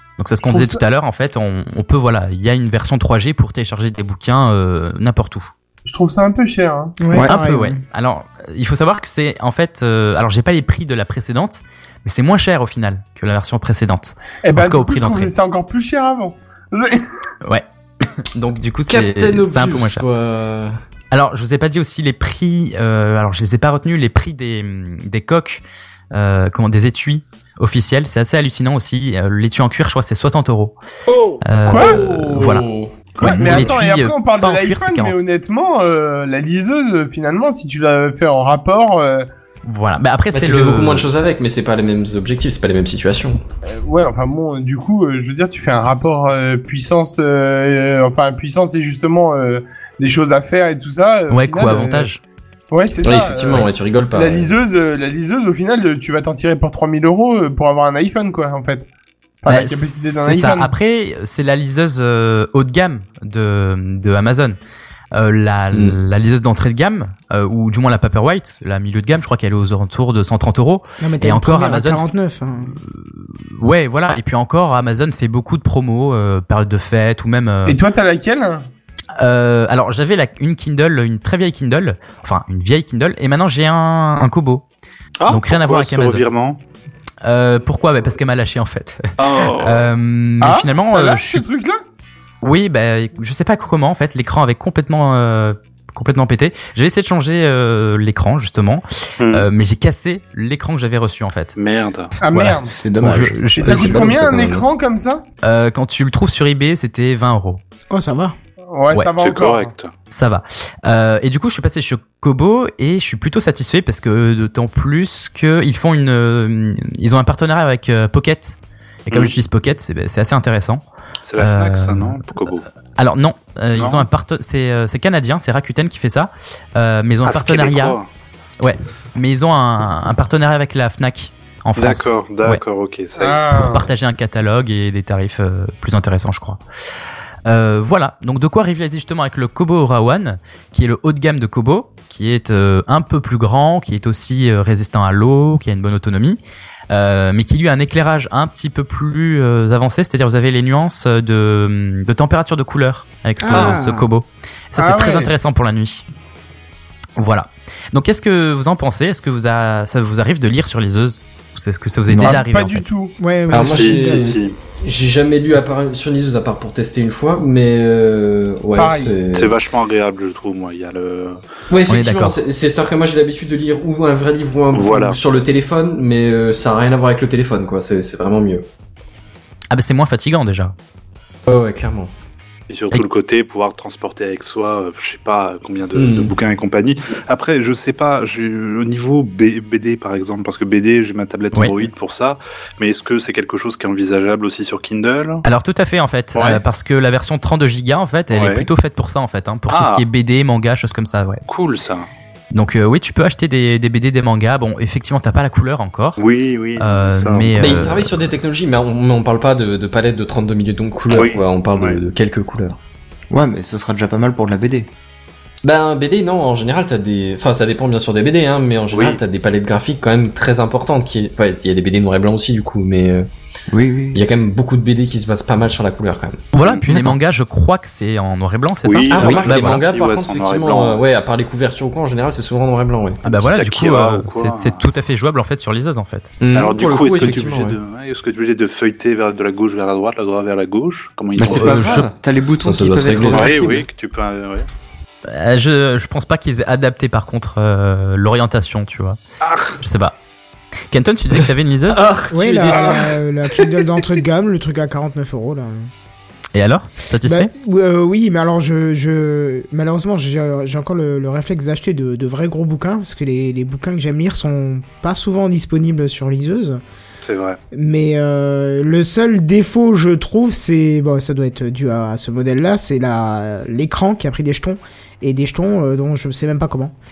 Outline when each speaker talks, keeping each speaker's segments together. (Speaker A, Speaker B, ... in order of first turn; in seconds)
Speaker A: 0.2-5.5, 7.2-15.3, 18.3-20.0, 21.1-30.8, 31.4-32.7, 33.2-35.2, 39.6-41.1, 51.3-52.2, 59.5-64.6, 65.1-72.0, 72.8-77.8, 79.2-84.6, 85.3-86.2, 87.2-91.4, 92.4-101.6, 102.3-104.2, 105.4-107.6, 110.1-120.8, 121.4-122.3, 123.0-128.0, 128.6-132.6, 133.5-136.6, 137.4-156.0, 157.2-162.9, 171.9-172.4, 179.7-180.7, 191.5-191.8, 195.4-201.4, 202.5-206.2, 206.8-208.2, 226.5-229.8, 233.2-236.4, 241.4-242.1, 245.3-249.2, 249.8-250.1, 250.9-252.1, 256.5-257.5
Speaker B: 0.5-0.8, 5.8-7.0, 14.4-17.1, 31.7-32.0, 33.2-39.3, 43.7-52.1, 52.7-58.9, 59.4-60.7, 77.7-78.7, 90.4-91.8, 102.2-102.8, 103.5-105.2, 108.7-109.7, 133.2-133.9, 154.8-155.3, 162.2-163.1, 168.8-169.2
Speaker C: 7.0-7.8, 71.0-72.8, 107.9-108.3, 153.4-154.1, 163.2-164.3, 252.3-255.9, 257.2-266.8, 267.7-276.9
Speaker D: 18.9-20.8, 31.6-33.7, 40.3-43.4, 53.0-54.5, 103.9-104.6, 163.5-169.5, 171.7-178.6, 181.5-182.1, 185.9-186.3, 207.6-212.8, 215.6-223.3, 224.1-226.4, 229.1-233.2, 236.4-237.8, 242.6-243.6, 251.9-253.2
Speaker E: 31.1-31.8, 85.2-86.6, 89.2-89.9, 99.2-99.5, 101.5-102.2, 109.2-109.9, 121.2-122.7, 123.7-124.0, 127.2-128.1, 131.7-133.4, 163.5-164.6, 169.3-171.4, 174.7-175.2, 182.7-195.4, 196.3-196.6, 198.3-198.7, 199.7-200.0, 201.5-202.1, 206.2-207.9, 211.1-212.0, 218.9-219.2, 226.6-226.8, 228.8-231.0, 233.3-234.8, 236.5-242.0, 243.2-244.7, 249.4-249.8, 267.2-267.6
Speaker F: 102.7-104.3, 162.1-162.4, 213.3-214.9, 223.7-224.2, 226.9-227.1, 241.4-243.8